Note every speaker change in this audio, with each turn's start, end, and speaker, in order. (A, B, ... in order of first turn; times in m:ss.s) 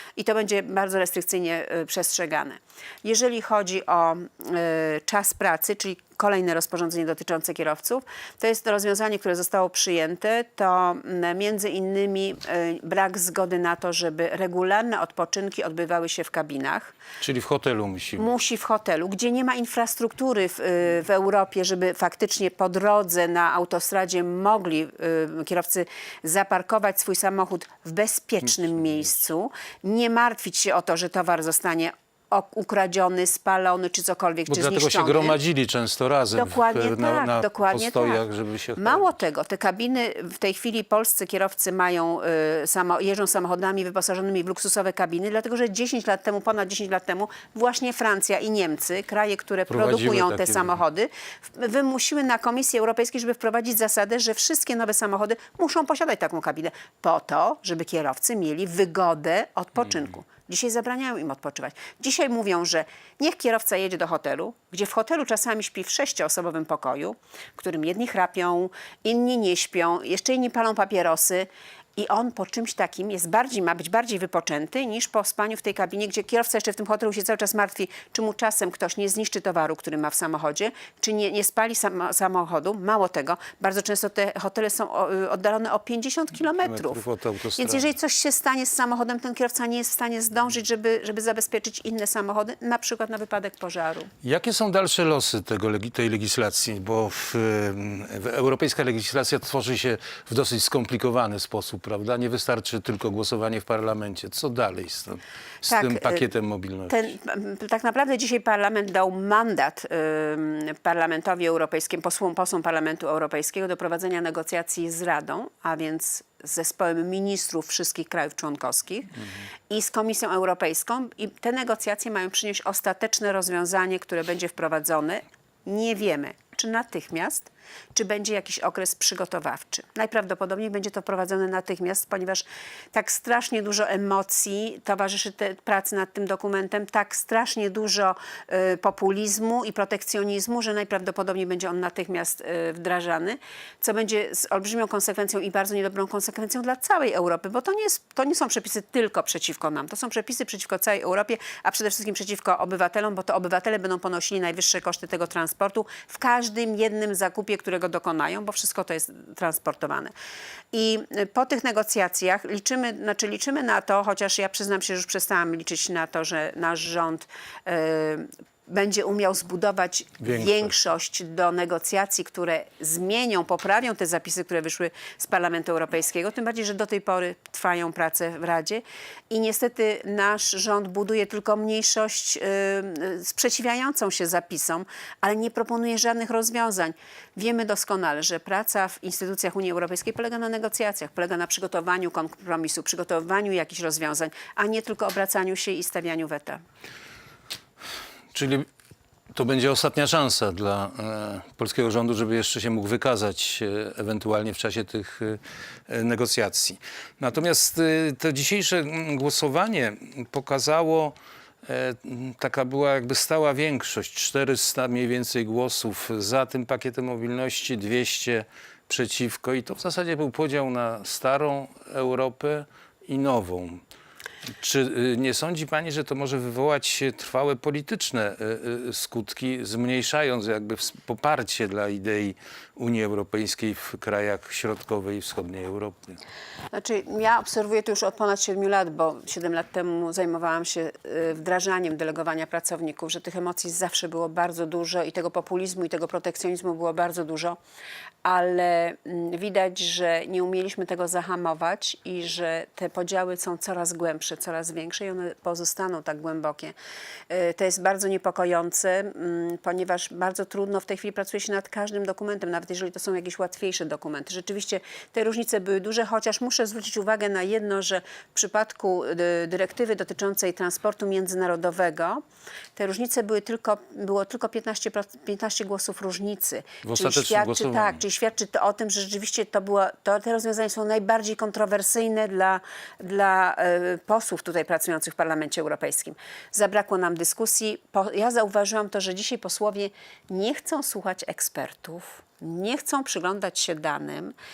0:00.2-0:17.0 A
0:17.2-0:18.3 B
0:18.2-0:35.4 A
0:34.5-0:39.1 B
0:36.3-0:38.2 A
0:38.8-1:27.0 A
0:49.7-0:50.7 B
1:26.6-1:27.8 B
1:27.6-1:34.1 A
1:34.2-1:47.0 B
1:45.7-1:46.2 A
1:46.9-2:40.1 A
2:40.7-3:16.6 A
2:50.2-2:50.7 B
3:18.3-3:18.7 B
3:19.3-3:43.8 B
3:44.6-3:56.2 B
3:56.7-4:07.6 A
4:08.2-4:16.8 A
4:17.3-4:32.2 A
4:32.8-4:54.4 A
4:36.8-4:38.0 B